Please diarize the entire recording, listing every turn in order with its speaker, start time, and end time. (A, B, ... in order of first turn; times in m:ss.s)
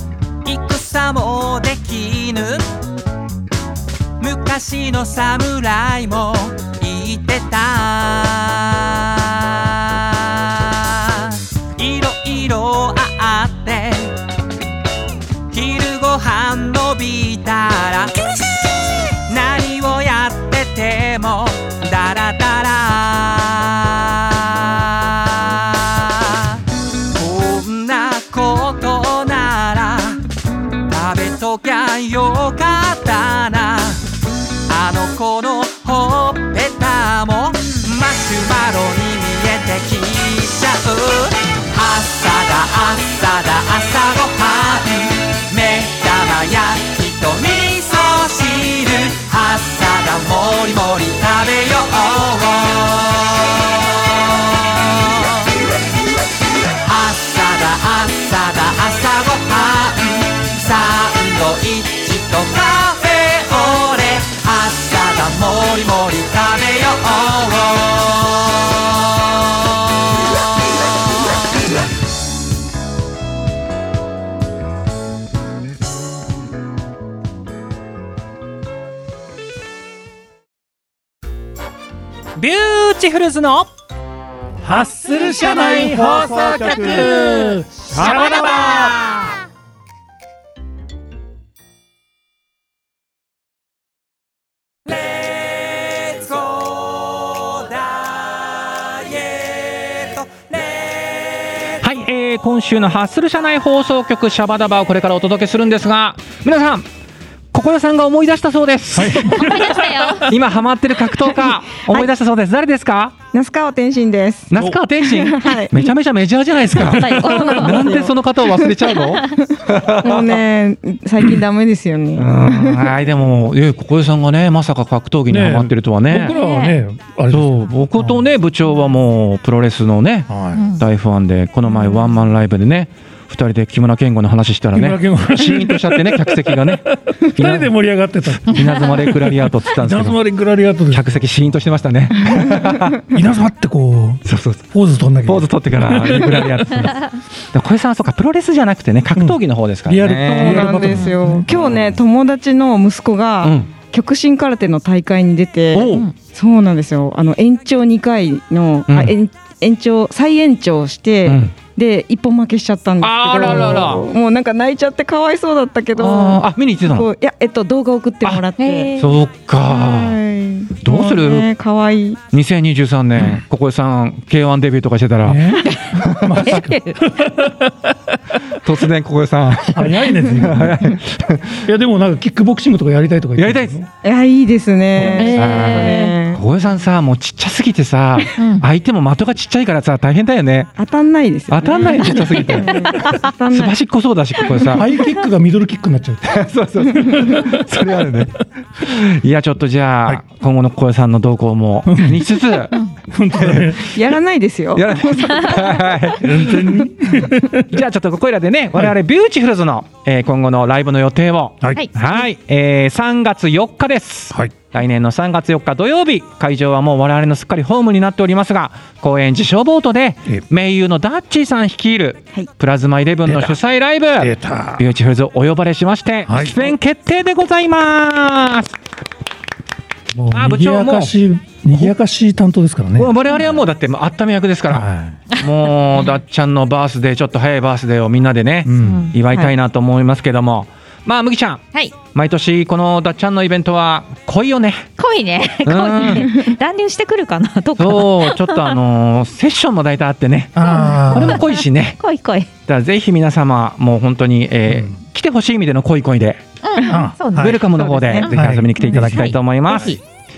0:00.4-0:02.7 A
0:04.2-0:14.2 A
0:15.5-0:18.4 A
0:19.3-0:26.6 A
0:27.1-0:30.2 A
0:30.8-0:34.1 A
0:34.7-0:55.5 A
0:56.8-1:10.0 A
1:22.4-1:23.7 B
1:24.6-1:29.1 C
1:25.3-1:29.3 B
1:34.9-1:41.7 A
1:41.8-1:46.9 B
1:47.5-1:49.5 B
1:48.9-1:50.1 C
1:49.3-1:50.3 D
1:50.2-1:53.2 B
1:53.3-1:55.9 E
1:54.5-2:00.4 B
1:56.8-1:58.0 D
1:57.2-1:58.1 E
1:59.0-1:59.4 D
1:59.8-2:02.9 E
2:02.2-2:06.4 B
2:05.3-2:08.2 C
2:06.2-2:06.8 D
2:07.3-2:17.7 B
2:10.3-2:10.7 C
2:10.5-2:10.8 D
2:14.7-2:21.6 C
2:18.4-2:20.2 B
2:20.9-2:23.0 B
2:22.2-2:26.9 C
2:24.2-2:24.7 B
2:25.2-2:30.8 B
2:29.1-2:31.5 C
2:30.3-2:48.9 E
2:30.8-2:31.2 D
2:31.5-2:32.0 B
2:33.4-2:33.7 B
2:35.7-2:36.1 B
2:38.9-2:39.1 B
2:41.2-2:41.5 B
2:43.0-2:44.1 B
2:46.0-2:47.1 B
2:48.6-2:49.1 D
2:49.0-2:50.2 B
2:49.7-2:52.2 E
2:50.8-2:51.5 B
2:52.3-2:56.6 B
2:55.2-2:58.2 C
2:56.4-2:57.0 D
2:58.5-3:01.6 B
2:59.7-3:01.0 C
3:01.6-3:03.9 C
3:03.4-3:03.8 B
3:04.0-3:06.4 E
3:05.0-3:05.3 C
3:05.0-3:06.2 D
3:05.3-3:10.7 B
3:08.4-3:08.6 D
3:10.8-3:13.7 E
3:11.5-3:14.8 B
3:12.5-3:12.8 C
3:14.6-3:17.6 C
3:16.2-3:22.8 B
3:21.9-3:23.9 C
3:23.3-3:23.9 B
3:23.9-3:25.9 E
3:24.7-3:26.9 B
3:26.2-3:27.7 C
3:27.6-3:48.7 B
3:43.2-3:43.6 C
3:44.2-3:44.8 C
3:46.3-3:46.6 C
3:50.1-3:53.1 C
3:50.3-3:51.1 B
3:53.0-4:04.9 B
3:54.7-3:55.2 C
3:58.6-3:59.1 C
3:58.8-3:59.1 D
4:05.0-4:08.8 D
4:05.6-4:06.3 B
4:07.8-4:12.0 B
4:10.5-4:11.4 C
4:10.6-4:12.5 D
4:12.7-4:16.4 B
4:14.7-4:14.9 C
4:16.6-4:17.6 D
4:16.8-4:17.6 C
4:17.4-4:20.0 B
4:17.7-4:18.2 E
4:18.2-4:20.0 D
4:18.2-4:19.4 C